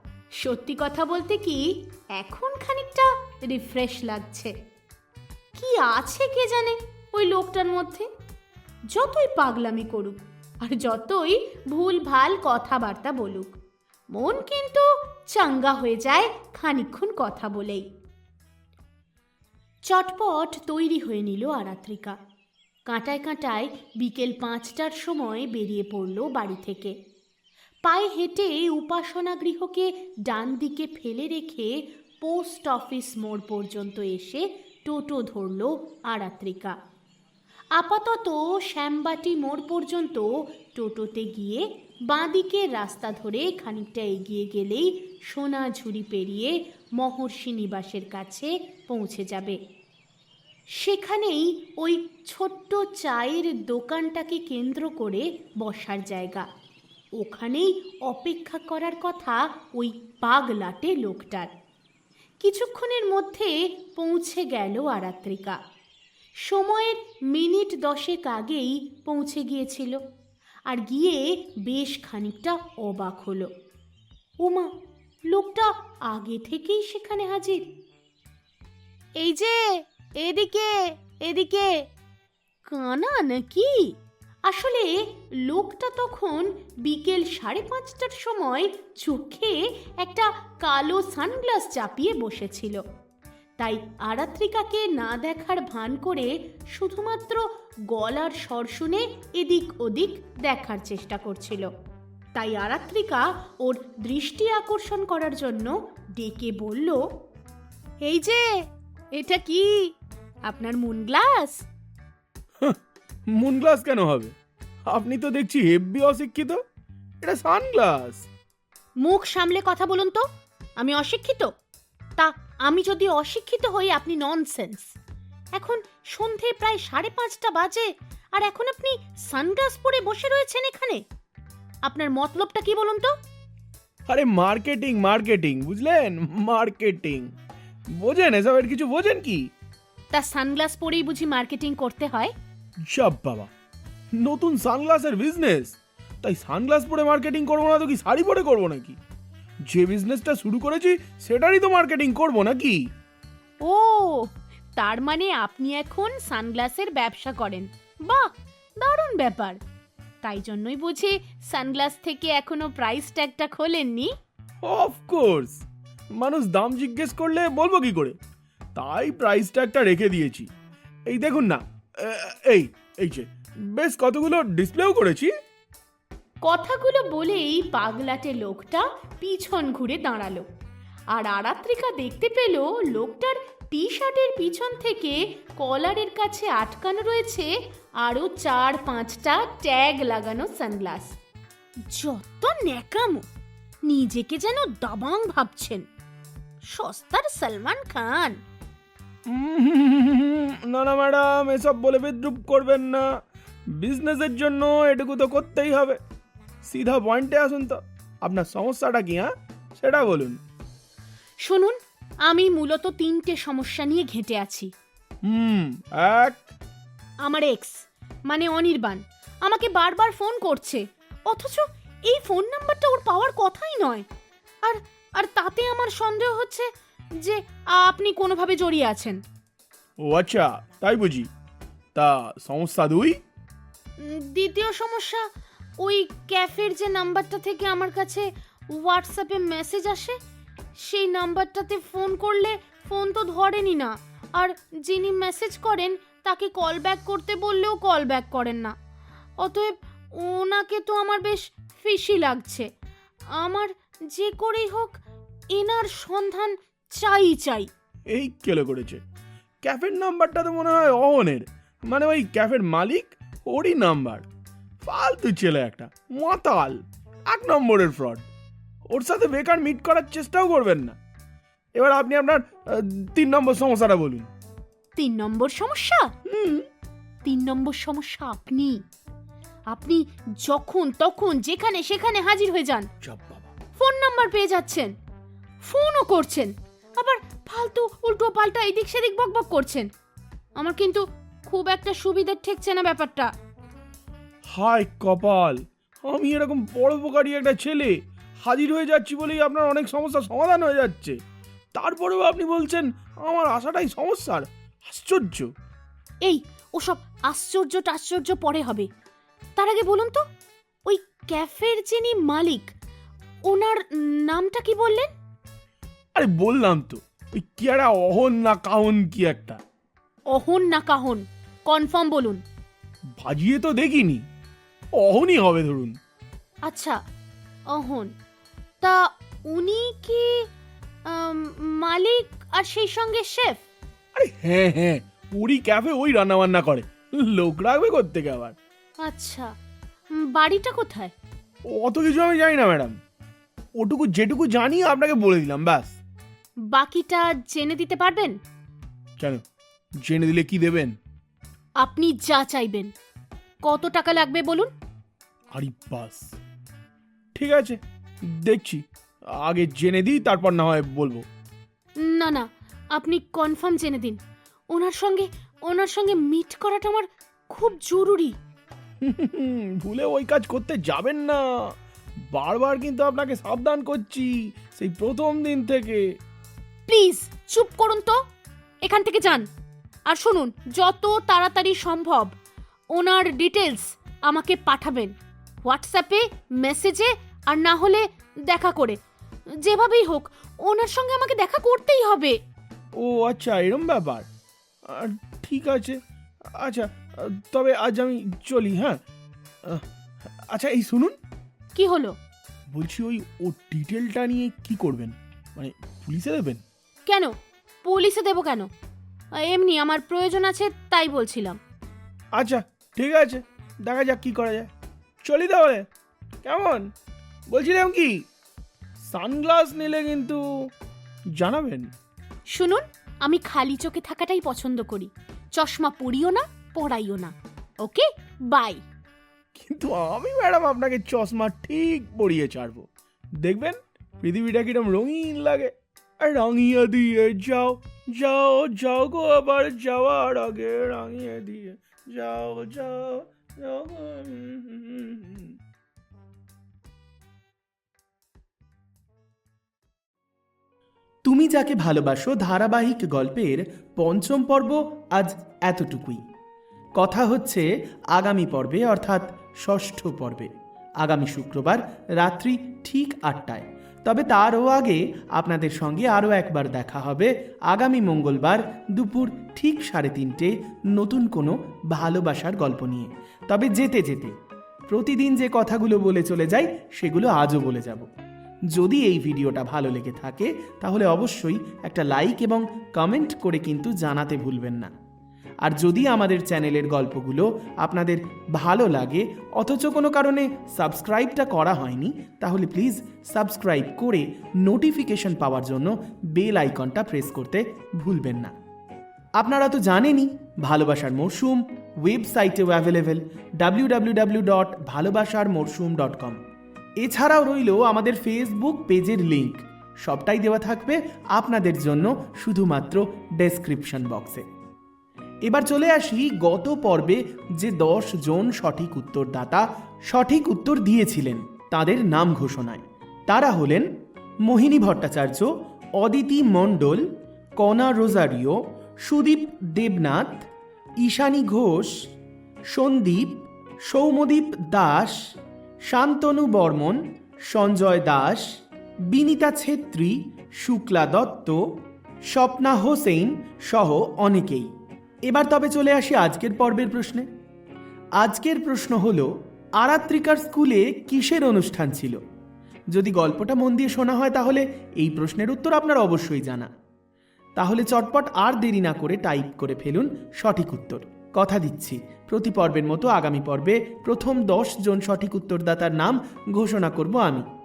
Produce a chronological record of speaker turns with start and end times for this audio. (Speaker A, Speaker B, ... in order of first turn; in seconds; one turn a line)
Speaker A: 0.4-4.5
Speaker A: 5.5-8.1
Speaker A: 8.9-13.5
Speaker A: 14.1-17.9
Speaker A: 19.8-22.2
Speaker A: 22.9-26.9
Speaker A: 27.8-36.8
Speaker A: 37.8-49.6
Speaker A: 50.8-56.5
Speaker A: 57.2-61.5
Speaker A: 62.4-65.6
Speaker A: 66.4-70.0
Speaker A: 70.7-73.5
Speaker A: 74.4-74.7
Speaker A: 75.3-77.7
Speaker A: 79.2-81.8
Speaker A: 82.6-83.9
Speaker A: 84.5-92.8
Speaker A: 93.6-101.7
Speaker A: 102.3-107.0
Speaker A: 108.0-108.6
Speaker A: 109.1-109.9
Speaker A: 110.5-111.6
Speaker B: 113.3-114.3
Speaker B: 114.9-116.6
Speaker B: 117.2-118.2
Speaker A: 119.0-120.2
Speaker A: 120.8-121.5
Speaker A: 122.2-124.9
Speaker A: 125.6-131.0
Speaker A: 131.8-133.1
Speaker B: 134.1-137.3
Speaker B: 137.9-139.5
Speaker A: 140.1-142.3
Speaker B: 142.8-143.5
Speaker B: 144.1-149.0
Speaker B: 149.7-152.9
Speaker A: 153.6-159.6
Speaker A: 160.2-164.1
Speaker B: 164.6-165.6
Speaker B: 166.1-168.2
Speaker B: 168.7-170.5
Speaker B: 171.1-175.3
Speaker A: 176.4-180.4
Speaker A: 181.1-191.1
Speaker A: 191.9-193.2
Speaker A: 193.9-195.8
Speaker A: 196.7-198.4
Speaker B: 199.3-203.1
Speaker B: 203.7-206.0
Speaker B: 206.6-210.4
Speaker A: 211.4-214.7
Speaker B: 215.3-216.5
Speaker A: 217.2-224.1
Speaker A: 224.6-226.7
Speaker A: 227.2-229.2
Speaker B: 230.0-231.3
Speaker B: 231.9-233.2
Speaker A: 234.0-235.2
Speaker A: 235.8-240.2
Speaker A: 240.8-248.7
Speaker A: 249.4-252.7
Speaker A: 253.3-255.0
Speaker A: 255.5-257.7
Speaker B: 258.1-259.0
Speaker B: 259.6-264.2
Speaker B: 264.8-268.2
Speaker B: 268.9-271.0
Speaker B: 271.8-274.3
Speaker A: 275.0-276.1
Speaker B: 276.2-276.7
Speaker A: 277.2-278.8
Speaker A: 279.7-282.9
Speaker B: 283.0-283.5
Speaker A: 283.8-284.9
Speaker A: 285.6-289.9
Speaker A: 290.6-293.3
Speaker B: 294.4-301.2
Speaker B: 301.7-305.5
Speaker A: 306.2-308.9
Speaker A: 309.6-310.2
Speaker A: 310.9-312.7
Speaker A: 313.5-315.1
Speaker B: 316.1-319.6
Speaker A: 320.3-322.4
Speaker B: 323.2-324.3
Speaker B: 325.0-326.0
Speaker A: 326.7-327.0
Speaker A: 327.7-328.1
Speaker A: 328.8-330.4
Speaker A: 331.1-333.6
Speaker B: 334.1-338.5
Speaker A: 339.0-339.5
Speaker A: 340.1-341.1
Speaker B: 341.7-343.0
Speaker B: 343.8-345.9
Speaker A: 346.7-348.4
Speaker B: 349.2-349.4
Speaker B: 350.0-351.0
Speaker A: 351.8-352.9
Speaker A: 353.6-354.7
Speaker B: 355.5-356.3
Speaker B: 357.3-361.2
Speaker A: 362.0-364.2
Speaker A: 364.7-368.4
Speaker B: 369.0-371.5
Speaker B: 372.3-376.1
Speaker A: 376.9-378.2
Speaker A: 378.8-379.5
Speaker A: 380.1-382.3
Speaker A: 382.9-385.1
Speaker A: 385.6-389.0
Speaker A: 389.6-392.4
Speaker B: 393.0-394.3
Speaker B: 394.8-396.0
Speaker B: 396.5-399.0
Speaker B: 399.6-401.2
Speaker A: 401.7-402.2
Speaker B: 402.7-406.6
Speaker A: 407.1-408.7
Speaker A: 409.3-411.6
Speaker B: 412.4-414.7
Speaker B: 415.2-415.9
Speaker B: 416.4-416.9
Speaker B: 417.5-418.2
Speaker B: 419.0-420.4
Speaker B: 421.4-421.9
Speaker A: 422.5-428.8
Speaker B: 429.5-432.9
Speaker B: 433.4-445.6
Speaker C: 451.2-456.2
Speaker C: 457.0-460.5
Speaker C: 461.0-474.3
Speaker C: 474.9-478.1
Speaker C: 478.7-484.9
Speaker C: 485.6-498.5
Speaker C: 499.4-506.4
Speaker C: 507.0-514.5
Speaker C: 515.5-523.9
Speaker C: 524.5-527.0
Speaker C: 527.6-530.5
Speaker C: 531.0-531.9
Speaker C: 532.7-535.2
Speaker C: 535.9-538.4
Speaker C: 539.1-541.6
Speaker C: 542.3-544.7
Speaker C: 545.2-547.3
Speaker C: 548.2-552.2
Speaker C: 552.9-556.7
Speaker C: 557.6-567.5